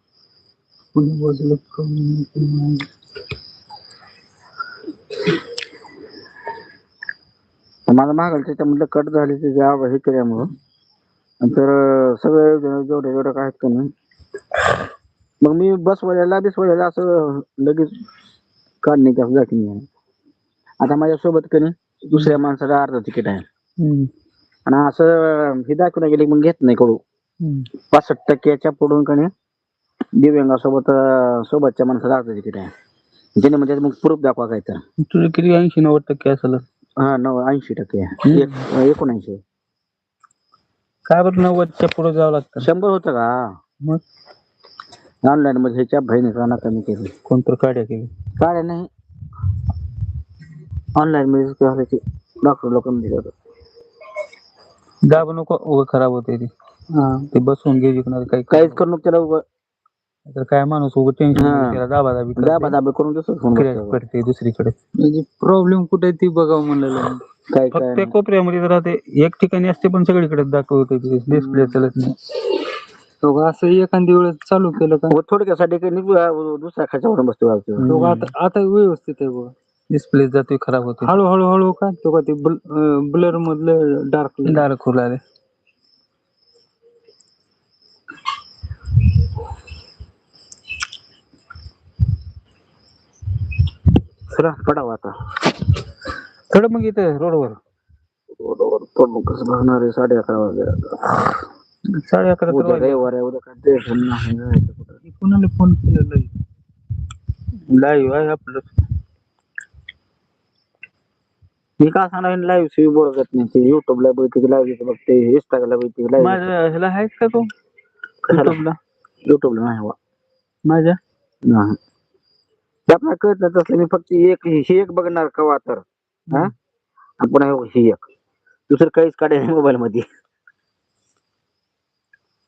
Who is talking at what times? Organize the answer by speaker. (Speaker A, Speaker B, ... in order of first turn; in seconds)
Speaker A: 0.9-2.9, 56.9-57.3, 65.0-67.2, 71.3-71.8, 73.2-75.2, 77.8-79.5, 81.0-84.6, 105.0-106.3
Speaker B: 7.9-10.5, 11.4-13.9, 15.4-17.9, 18.8-19.8, 20.8-23.4, 24.6-27.0, 27.8-29.3, 30.1-32.7, 33.4-34.8, 37.0-39.4, 42.6-43.5, 45.2-47.1, 48.4-48.9, 50.9-53.3, 58.5-59.4, 61.3-61.8, 62.4-64.0, 67.5-68.1, 75.1-77.9, 94.3-95.1, 98.3-101.3, 102.5-105.0, 111.8-116.5, 118.3-118.6, 119.2-120.0, 121.5-121.8, 122.9-126.5, 127.2-128.0, 128.7-130.0
Speaker C: 23.8-24.1, 27.4-27.7, 35.0-36.6, 38.3-38.6, 41.0-42.7, 47.2-48.1, 55.0-56.5, 57.3-58.8, 60.3-62.7, 63.5-64.7, 67.7-72.2, 77.8-78.3, 79.9-81.1, 84.4-85.2, 96.5-97.6, 101.9-103.0, 107.7-108.7, 116.2-117.5, 118.3-118.8, 120.6-121.0